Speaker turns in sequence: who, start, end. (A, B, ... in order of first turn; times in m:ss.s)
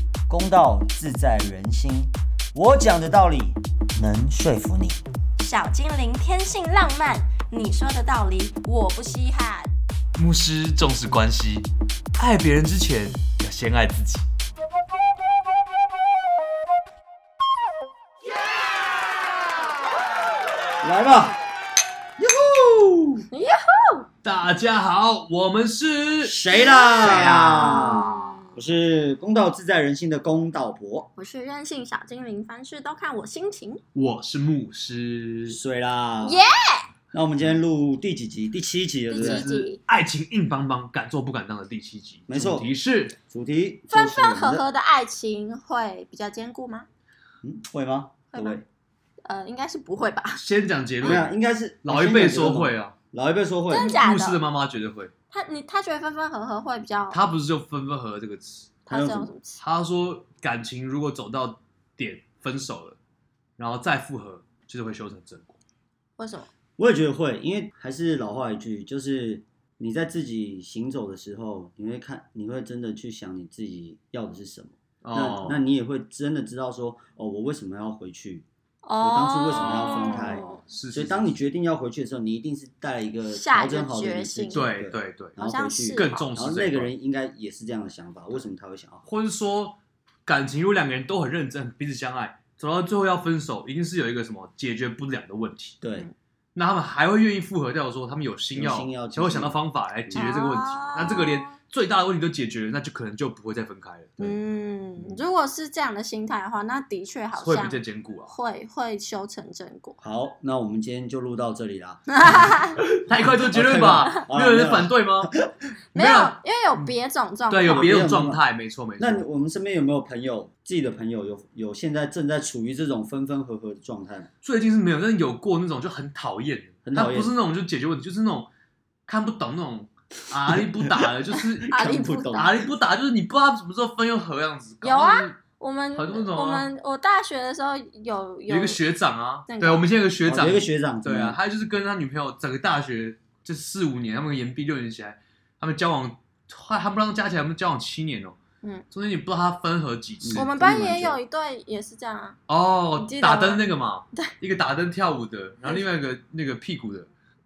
0:00.3-0:05.0 A
0:05.4-0:09.7 B
0:10.2-0:14.3 C
0:20.8-0:21.4 A
0:22.2-0:23.2 A
0:23.3-0:24.1 B
0:24.2-0:26.4 C
0:26.2-0:31.1 A
0:26.5-0:28.6 B
0:26.9-0:28.1 C
0:31.2-0:33.8 B
0:33.9-0:35.6 C
0:35.5-0:36.4 A
0:36.2-0:36.9 B
0:37.1-0:39.5 A
0:39.1-0:39.8 B
0:39.2-0:43.2 C
0:42.3-0:42.7 A
0:43.3-0:44.7 A
0:43.9-0:46.9 B
0:47.4-0:48.6 A
0:48.3-0:48.6 B
0:49.2-0:50.4 B
0:50.4-0:51.3 C
0:51.0-0:54.0 A
0:51.8-0:53.0 C
0:53.7-0:54.4 B
0:53.7-0:55.1 C
0:55.3-0:57.2 B
0:57.1-0:58.8 C
0:58.9-0:59.3 A
0:58.9-0:59.6 B
0:59.6-1:03.0 C
1:03.6-1:05.6 C
1:06.2-1:06.5 B
1:06.8-1:18.5 A
1:15.0-1:15.6 C
1:18.8-1:20.6 B
1:19.0-1:29.1 A
1:19.6-1:21.4 C
1:23.3-1:24.7 B
1:24.5-1:25.4 C
1:25.4-1:26.3 B
1:25.9-1:26.9 C
1:29.1-1:35.8 C
1:35.8-1:36.1 A
1:36.6-1:44.2 C
1:38.6-1:40.3 A
1:40.1-1:41.6 B
1:41.0-1:41.2 A
1:44.2-1:50.0 B
1:47.4-1:48.4 C
1:50.0-1:52.6 A
1:52.2-1:52.7 B
1:52.8-1:55.3 C
1:53.1-1:55.4 A
1:55.9-1:57.0 C
1:56.0-1:57.9 B
1:57.5-1:59.3 C
1:57.7-1:58.4 A
1:59.0-2:04.3 A
2:04.4-2:08.5 C
2:06.8-2:07.4 A
2:09.1-2:15.4 C
2:11.7-2:12.7 A
2:11.7-2:12.6 B
2:14.8-2:18.8 B
2:15.9-2:16.7 C
2:18.5-2:28.4 C
2:19.5-2:19.9 B
2:20.2-2:21.4 A
2:28.9-2:30.5 C
2:30.2-2:31.2 A
2:30.3-2:32.4 B
2:32.5-2:37.1 C
2:33.0-2:34.3 B